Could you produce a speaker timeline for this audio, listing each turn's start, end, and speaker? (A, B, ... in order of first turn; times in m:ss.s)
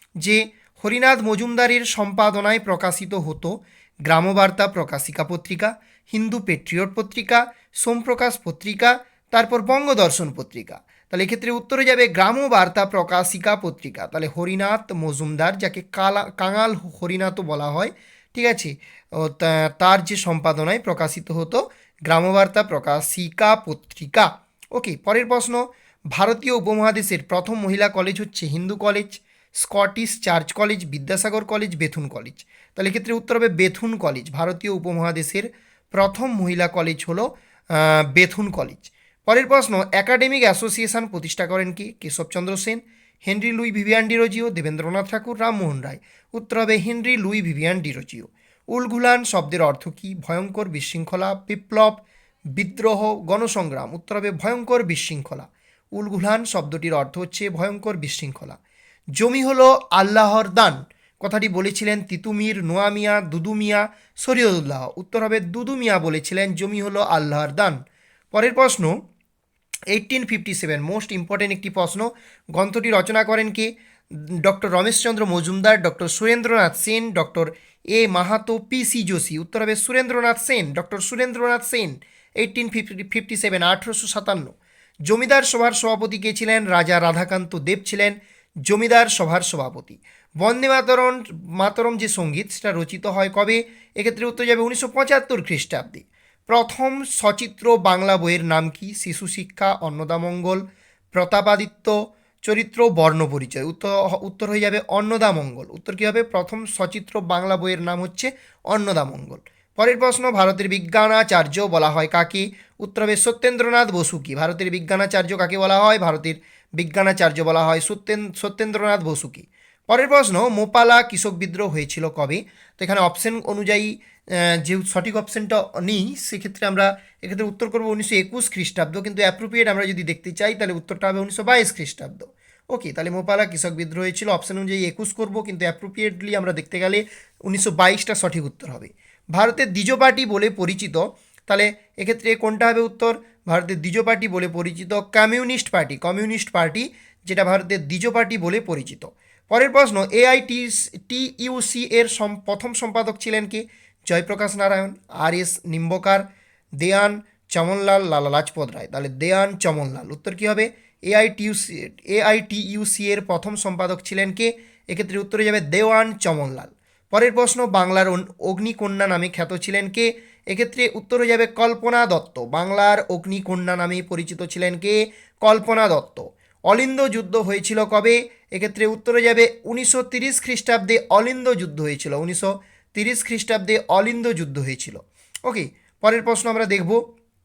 0:00.2-0:58.6 A
0:59.2-1:07.8 A
1:08.3-1:08.9 A
1:09.9-1:24.6 A
1:25.1-2:36.2 A
2:36.8-3:07.0 A